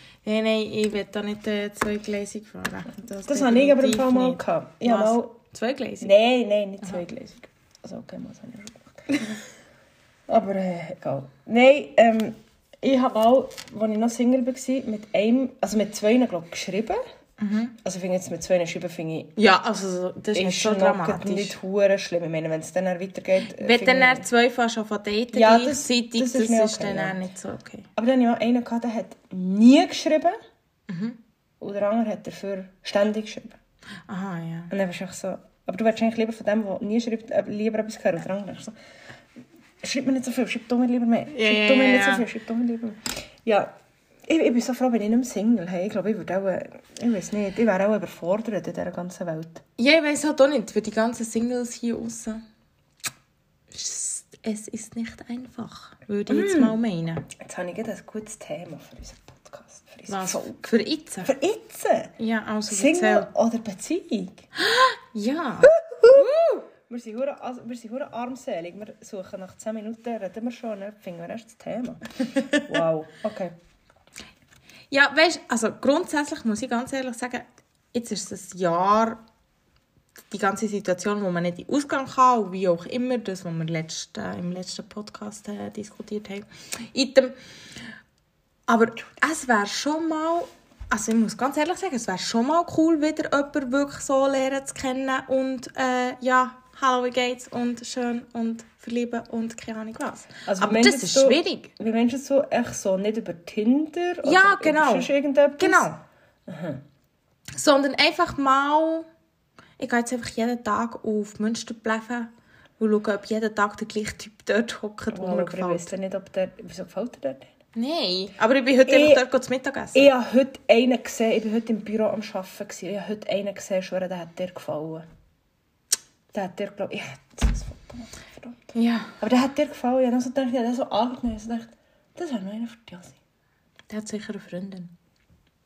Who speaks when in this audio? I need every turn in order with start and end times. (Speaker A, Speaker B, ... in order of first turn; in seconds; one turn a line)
Speaker A: 0.2-6.1
Speaker B: 3.3-5.3
Speaker B: 6.0-9.4
Speaker B: 10.3-17.0
Speaker A: 17.4-17.8
Speaker B: 17.8-19.4
Speaker A: 19.4-21.6
Speaker B: 20.4-24.3
Speaker A: 23.4-27.9
Speaker B: 25.3-27.2
Speaker B: 28.0-30.4
Speaker A: 30.9-31.2
Speaker B: 31.6-33.6
Speaker A: 34.1-34.7
Speaker B: 34.7-38.8
Speaker B: 39.8-43.7
Speaker A: 41.3-42.3
Speaker B: 44.3-49.6
Speaker A: 49.8-52.4
Speaker A: 53.7-57.3
Speaker B: 56.3-56.8
Speaker B: 57.4-60.5
Speaker A: 60.1-61.3
Speaker B: 61.2-62.1
Speaker A: 62.2-63.3
Speaker B: 62.7-64.4
Speaker A: 64.6-66.7
Speaker B: 65.6-73.5
Speaker A: 72.3-72.7
Speaker A: 74.9-79.2
Speaker A: 80.3-87.4
Speaker A: 88.7-101.7
Speaker B: 100.5-105.9
Speaker A: 104.2-106.0
Speaker B: 106.5-106.8
Speaker A: 107.6-109.1
Speaker A: 109.8-115.9
Speaker B: 115.1-117.4
Speaker A: 117.8-120.1
Speaker B: 118.9-119.2
Speaker B: 119.9-125.0
Speaker B: 126.3-128.6
Speaker A: 128.7-129.1
Speaker B: 129.2-133.2
Speaker A: 133.9-134.9